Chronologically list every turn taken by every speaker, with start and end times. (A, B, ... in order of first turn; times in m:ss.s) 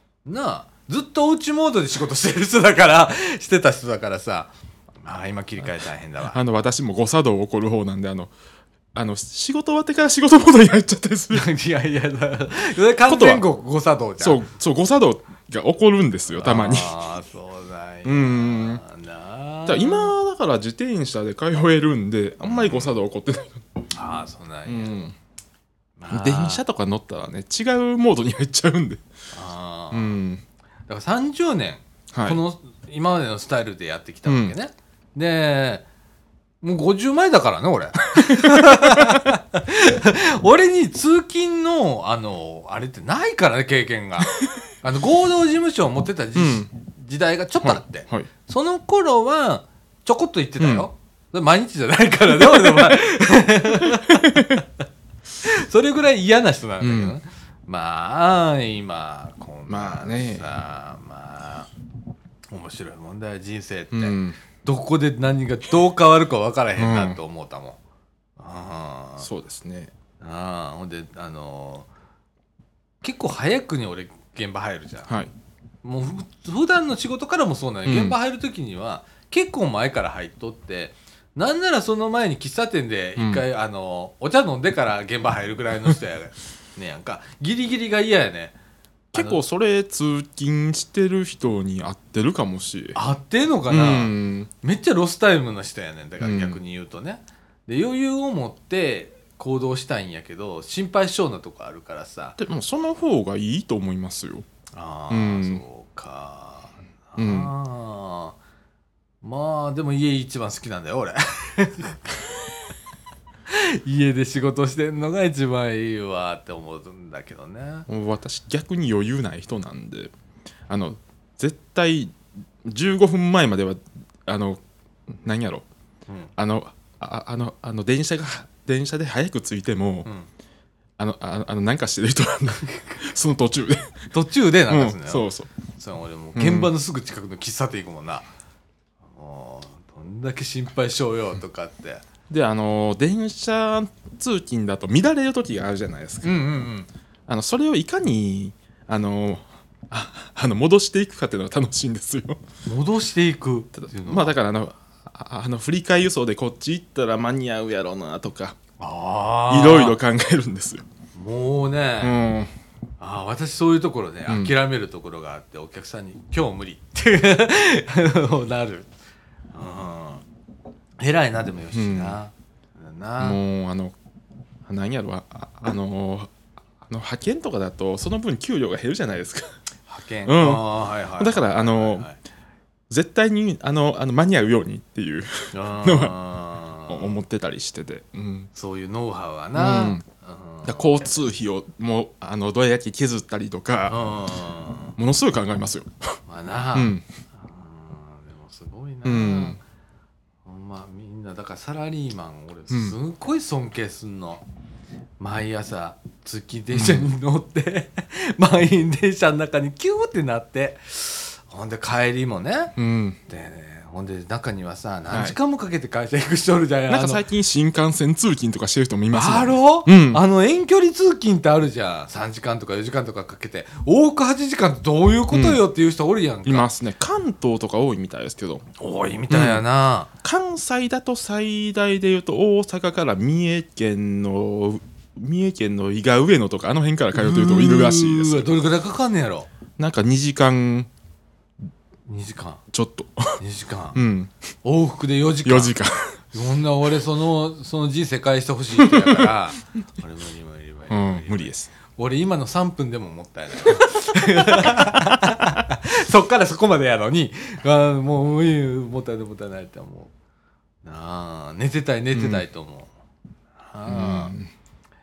0:00.3-0:04.5 A
0:05.0-0:06.4 A
0:06.3-0:08.3 B
0:09.0-0:11.5 B
0:11.3-0:14.4 A
0:13.1-0:13.4 B
0:14.2-0:16.9 B
0:16.3-0:20.1 A
0:18.0-0:18.8 B
0:19.7-0:23.7 B
0:22.4-0:22.9 A
0:23.9-0:25.0 A
0:24.7-0:25.1 B
0:26.0-0:26.6 A
0:26.1-0:29.0 B
0:29.3-0:30.2 A
0:29.9-0:30.4 B
0:30.9-0:35.8 A
0:32.1-0:32.4 B
0:34.3-0:34.6 B
0:36.6-0:54.6 A
0:38.2-0:39.3 B
0:46.4-0:46.7 B
0:47.6-0:48.3 B
0:50.6-0:50.9 B
0:54.1-0:54.6 B
0:55.4-1:01.7 A
0:56.8-0:57.2 B
0:59.7-1:00.5 B
1:02.5-1:07.8 A
1:03.9-1:04.4 B
1:06.8-1:07.2 B
1:08.4-1:09.3 A
1:09.2-1:09.9 B
1:10.2-1:11.9 A
1:13.0-1:15.2 A
1:15.8-1:28.6 A
1:17.9-1:18.2 B
1:23.2-1:23.4 B
1:29.1-1:33.0 B
1:29.2-1:29.4 A
1:33.0-1:42.4 A
1:33.7-1:34.5 B
1:36.2-1:36.6 B
1:42.4-1:44.4 B
1:44.7-1:48.4 A
1:45.1-1:45.6 B
1:47.2-1:47.5 B
1:49.2-1:52.3 A
1:53.5-1:57.9 A
1:57.9-2:00.1 B
2:00.7-2:05.7 B
2:06.4-2:10.1 B
2:11.0-2:14.1 B
2:14.1-2:15.2 A
2:14.7-2:15.5 B
2:15.8-2:18.3 A
2:16.4-2:16.7 B
2:19.1-2:22.0 A
2:22.3-2:26.4 B
2:26.2-2:26.9 A
2:27.3-2:32.4 B
2:32.7-2:34.4 A
2:33.8-2:38.6 B
2:38.8-2:40.0 A
2:39.5-2:40.8 B
2:41.2-2:42.2 A
2:42.0-2:42.5 B
2:43.0-2:48.9 A
2:44.3-2:44.5 B
2:49.5-2:50.2 A
2:51.0-2:53.4 A
2:51.7-2:52.2 B
2:53.2-2:54.0 B
2:54.7-2:59.5 B
2:59.9-3:02.2 A
3:00.3-3:00.7 B
3:01.2-3:02.1 B
3:02.9-3:06.2 B
3:05.5-3:07.2 A
3:06.9-3:08.5 B
3:08.5-3:11.2 A
3:09.6-3:10.0 B
3:10.6-3:14.0 B
3:13.9-3:15.0 A
3:15.0-3:16.2 B
3:16.3-3:19.6 A
3:16.7-3:17.0 B
3:19.0-3:19.6 B
3:20.4-3:24.4 A
3:22.7-3:23.0 B
3:25.2-3:32.8 A
3:26.7-3:27.1 B
3:32.8-3:33.2 B
3:33.3-3:37.2 A
3:35.1-3:35.4 B
3:36.9-3:40.2 B
3:39.1-3:46.7 A
3:45.3-3:45.6 B
3:46.4-3:48.7 B
3:48.8-3:50.1 A
3:49.3-3:49.6 B
3:50.2-3:58.5 B
3:57.2-3:59.5 A
3:59.8-4:00.9 B
4:02.1-4:02.6 A
4:02.7-4:03.4 B
4:03.4-4:04.0 A
4:04.0-4:04.3 B
4:04.6-4:05.7 A
4:05.4-4:06.2 B
4:06.3-4:20.1 A
4:08.8-4:09.3 B
4:10.9-4:11.7 B
4:14.4-4:15.0 B
4:20.8-4:22.9 A
4:22.1-4:22.4 B
4:23.6-4:24.4 A
4:23.9-4:24.5 B